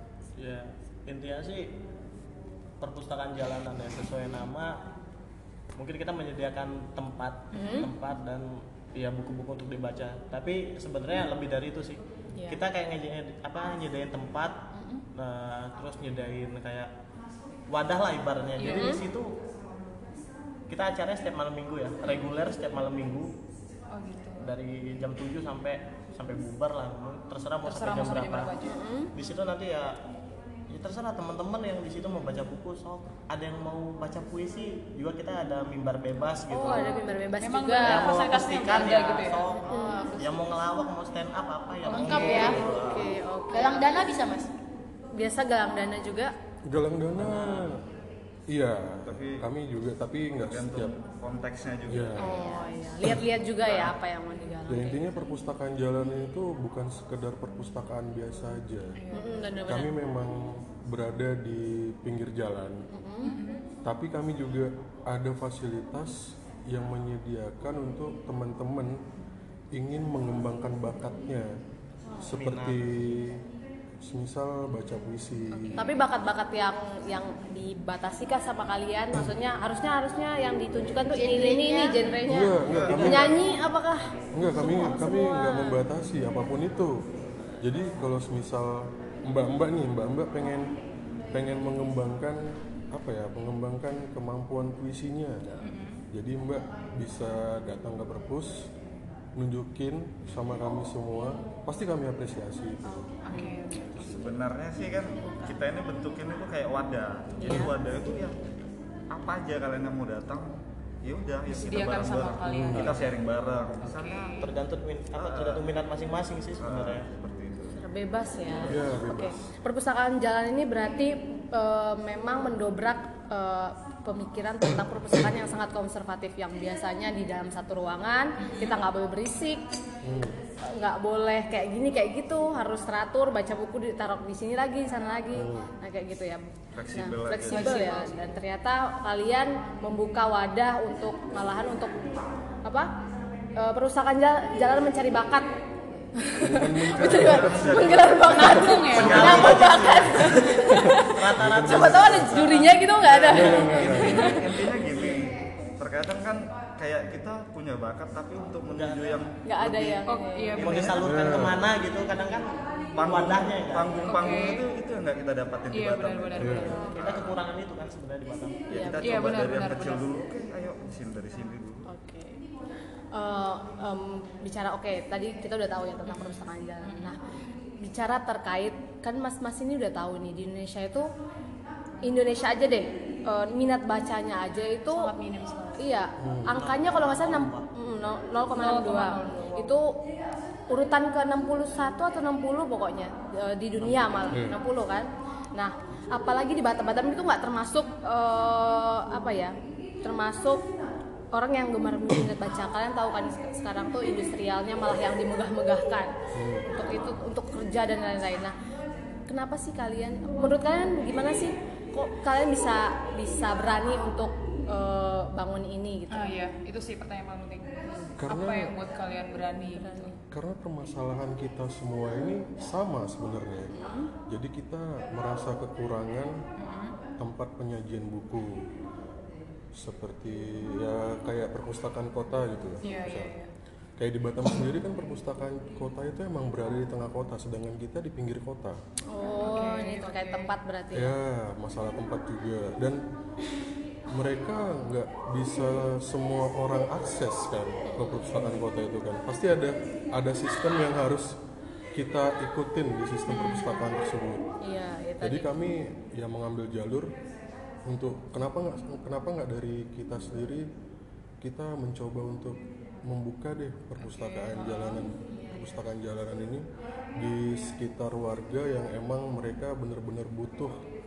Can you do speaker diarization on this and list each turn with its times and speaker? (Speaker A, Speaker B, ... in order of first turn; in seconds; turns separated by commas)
Speaker A: 0.4-1.8, Speaker A: 2.8-4.8, Speaker A: 5.8-16.9, Speaker B: 7.5-7.9, Speaker B: 12.3-12.6, Speaker C: 14.7-15.0, Speaker A: 17.7-19.4, Speaker D: 18.6-19.0, Speaker B: 18.6-19.0, Speaker A: 20.7-23.3, Speaker D: 23.9-24.5, Speaker A: 24.4-30.0, Speaker D: 27.6-28.8, Speaker B: 28.7-29.1, Speaker A: 30.7-37.0, Speaker B: 36.5-38.1, Speaker D: 37.4-39.5, Speaker A: 37.8-43.1, Speaker C: 39.6-40.2, Speaker B: 39.7-40.0, Speaker C: 41.9-42.6, Speaker B: 41.9-44.0, Speaker D: 42.0-42.5, Speaker C: 43.5-44.5, Speaker B: 45.1-46.3, Speaker E: 46.7-47.8, Speaker E: 48.5-50.9, Speaker F: 49.0-49.4, Speaker F: 50.5-52.3, Speaker E: 51.9-52.3, Speaker B: 52.2-55.0, Speaker F: 53.6-53.9, Speaker E: 54.7-59.0, Speaker D: 58.9-59.5, Speaker B: 59.1-59.9, Speaker E: 59.7-62.8, Speaker B: 62.9-63.4, Speaker D: 63.2-63.6, Speaker E: 63.8-66.2, Speaker E: 66.7-69.0, Speaker E: 69.7-71.5, Speaker A: 72.2-72.8, Speaker E: 72.2-73.4, Speaker E: 74.0-75.8, Speaker D: 75.5-76.0, Speaker B: 75.8-85.8, Speaker C: 81.1-82.0, Speaker E: 82.3-83.3, Speaker F: 82.6-83.5, Speaker E: 84.3-86.9, Speaker E: 87.6-90.7, Speaker E: 91.3-95.5, Speaker D: 95.6-96.0, Speaker E: 96.1-98.7, Speaker E: 99.4-103.0, Speaker D: 102.9-104.0, Speaker F: 104.0-108.4, Speaker E: 107.5-107.7, Speaker F: 109.1-110.5, Speaker F: 111.0-114.4, Speaker D: 111.5-113.0, Speaker E: 112.4-113.0, Speaker D: 113.8-114.5, Speaker A: 114.4-117.1, Speaker F: 115.2-115.8, Speaker F: 116.6-117.8, Speaker B: 117.7-129.6, Speaker E: 118.7-119.5, Speaker D: 128.4-128.8, Speaker E: 130.0-130.3, Speaker B: 130.6-142.0, Speaker E: 135.3-135.7, Speaker F: 136.7-137.8, Speaker D: 137.5-138.2, Speaker B: 142.6-142.9, Speaker B: 143.6-145.5, Speaker B: 146.2-154.4, Speaker E: 146.4-149.6, Speaker F: 146.9-150.2, Speaker D: 148.2-149.4, Speaker A: 149.0-150.5, Speaker E: 150.7-152.4, Speaker A: 151.0-152.7, Speaker F: 153.0-160.0, Speaker E: 153.3-154.6, Speaker A: 158.5-159.2, Speaker B: 159.4-160.6, Speaker D: 160.1-161.0, Speaker F: 160.6-161.1, Speaker A: 160.6-164.3, Speaker E: 161.0-161.7, Speaker F: 162.9-167.4, Speaker D: 164.1-164.7, Speaker D: 165.7-166.9, Speaker E: 166.4-166.7, Speaker A: 166.8-168.7, Speaker F: 168.7-171.9, Speaker B: 168.7-169.3, Speaker D: 169.0-170.0, Speaker B: 171.9-172.4, Speaker B: 173.1-177.2, Speaker D: 176.1-177.2, Speaker B: 177.8-181.1, Speaker B: 182.0-185.1, Speaker D: 184.9-185.8, Speaker B: 185.8-189.9, Speaker E: 186.2-186.4, Speaker A: 186.5-187.7, Speaker D: 188.5-189.7, Speaker B: 190.7-200.6, Speaker A: 193.8-194.4, Speaker E: 194.3-194.6, Speaker B: 201.3-206.1, Speaker E: 206.3-206.7, Speaker B: 206.6-208.5, Speaker B: 209.3-216.3, Speaker D: 216.1-220.1, Speaker E: 218.2-218.7, Speaker B: 219.7-220.2, Speaker E: 220.3-226.3, Speaker B: 223.7-224.1, Speaker D: 226.6-226.9, Speaker E: 227.2-228.6, Speaker E: 229.7-233.3, Speaker D: 232.8-233.5, Speaker E: 234.0-238.8, Speaker B: 239.1-241.2, Speaker D: 239.3-240.5, Speaker E: 240.9-243.0, Speaker E: 244.1-251.3, Speaker B: 247.8-248.2, Speaker E: 251.9-254.4, Speaker D: 253.3-253.8, Speaker B: 254.6-255.5, Speaker E: 255.2-257.1, Speaker E: 257.9-260.7, Speaker E: 261.4-270.8, Speaker D: 264.0-265.1